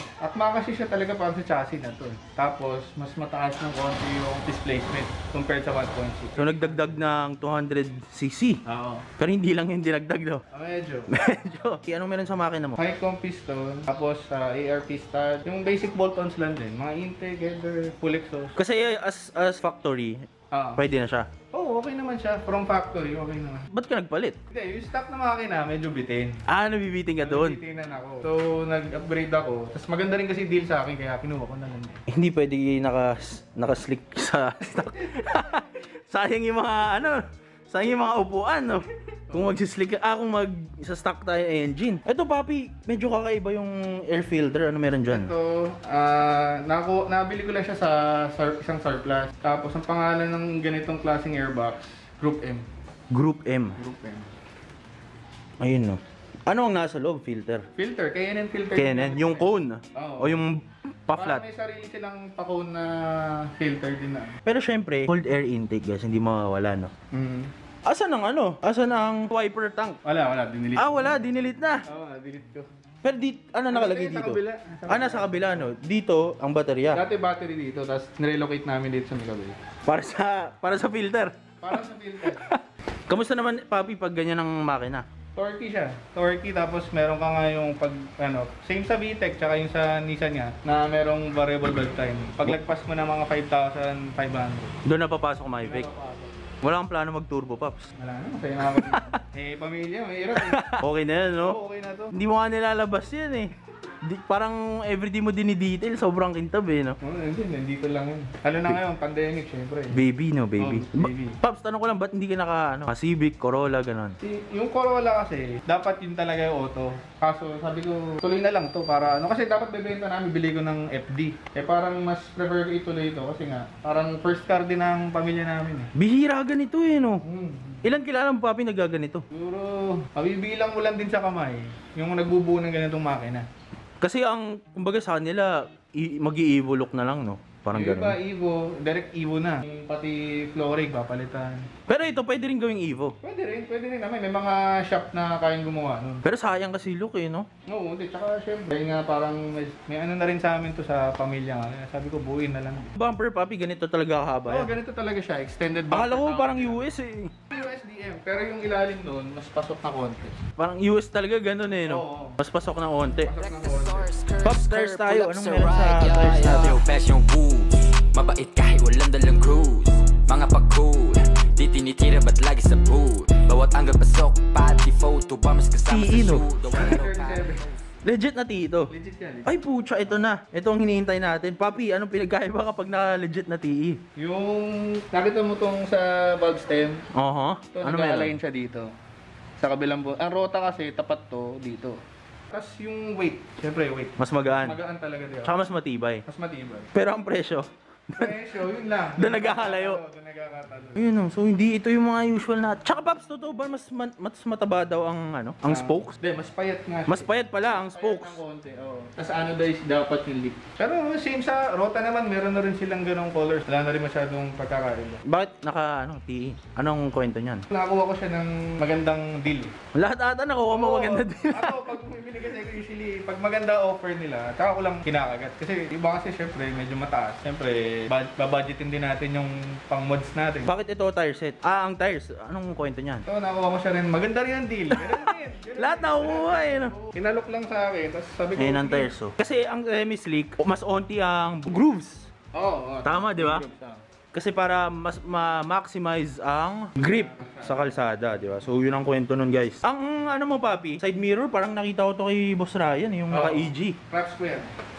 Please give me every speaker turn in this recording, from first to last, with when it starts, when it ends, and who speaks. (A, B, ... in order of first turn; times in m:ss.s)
0:00.2-0:06.9 A
0:06.4-0:08.6 B
0:08.7-0:09.1 A
0:09.2-0:10.4 B
0:10.5-0:11.2 A
0:11.1-0:12.8 B
0:12.8-0:18.6 A
0:18.6-0:21.3 B
0:20.5-0:20.8 A
0:21.5-0:23.7 A
0:23.7-0:24.4 B
0:24.5-0:26.4 A
0:26.5-0:27.6 B
0:27.2-0:32.0 A
0:32.1-0:45.3 B
0:39.3-0:39.6 A
0:45.1-0:52.7 A
0:53.1-0:53.8 B
0:53.8-0:54.3 A
0:55.6-0:57.7 B
0:57.8-1:00.4 A
0:58.8-1:01.4 B
1:01.1-1:04.4 A
1:04.4-1:06.9 B
1:07.1-1:07.5 A
1:07.9-1:10.0 B
1:10.0-1:11.3 A
1:10.8-1:11.8 B
1:11.8-1:12.7 A
1:13.0-1:17.0 B
1:13.7-1:15.7 A
1:16.9-1:19.6 A
1:19.9-1:21.3 B
1:21.6-1:22.5 A
1:22.3-1:25.0 B
1:25.4-1:34.7 A
1:34.8-1:35.9 B
1:35.6-1:36.3 A
1:36.6-1:37.9 B
1:38.0-1:40.8 A
1:38.7-1:39.2 B
1:40.4-1:41.6 B
1:41.4-1:42.1 A
1:42.1-1:47.0 B
1:47.0-1:50.0 A
1:49.9-1:54.2 B
1:50.6-1:51.4 A
1:54.2-2:05.9 A
2:06.0-2:07.2 B
2:07.2-2:07.8 A
2:07.8-2:09.2 B
2:09.3-2:13.5 A
2:14.0-2:18.2 B
2:17.7-2:21.7 A
2:21.9-2:23.2 B
2:23.2-2:26.2 A
2:26.2-2:27.5 B
2:27.7-2:33.0 A
2:33.0-2:34.7 B
2:34.5-2:36.8 A
2:35.9-2:37.3 B
2:37.5-2:40.4 A
2:40.6-2:43.3 B
2:41.8-2:42.4 A
2:43.2-2:44.1 A
2:43.3-2:57.8 C
2:44.4-2:46.8 B
2:55.9-2:56.5 B
2:56.7-2:57.6 A
2:58.0-2:58.9 B
2:58.9-3:00.2 A
2:59.4-3:04.0 B
3:04.2-3:07.0 A
3:07.2-3:08.4 B
3:07.7-3:08.9 A
3:09.6-3:12.0 A
3:12.5-3:15.6 A
3:14.2-3:14.8 B
3:15.4-3:16.2 B
3:16.3-3:16.9 A
3:16.9-3:18.3 B
3:18.2-3:21.1 A
3:19.2-3:20.0 B
3:21.0-3:26.2 B
3:25.7-3:27.3 A
3:27.1-3:28.4 B
3:27.8-3:35.2 A
3:35.3-3:37.6 B
3:37.7-3:39.7 A
3:40.0-3:41.8 B
3:40.7-3:50.7 A
3:50.7-3:53.2 B
3:53.3-3:59.1 A
3:55.0-3:56.9 B
3:58.6-4:02.3 B
4:02.5-4:04.0 A
4:03.0-4:03.6 B
4:04.3-4:14.0 B
4:07.0-4:07.9 A
4:13.3-4:14.7 A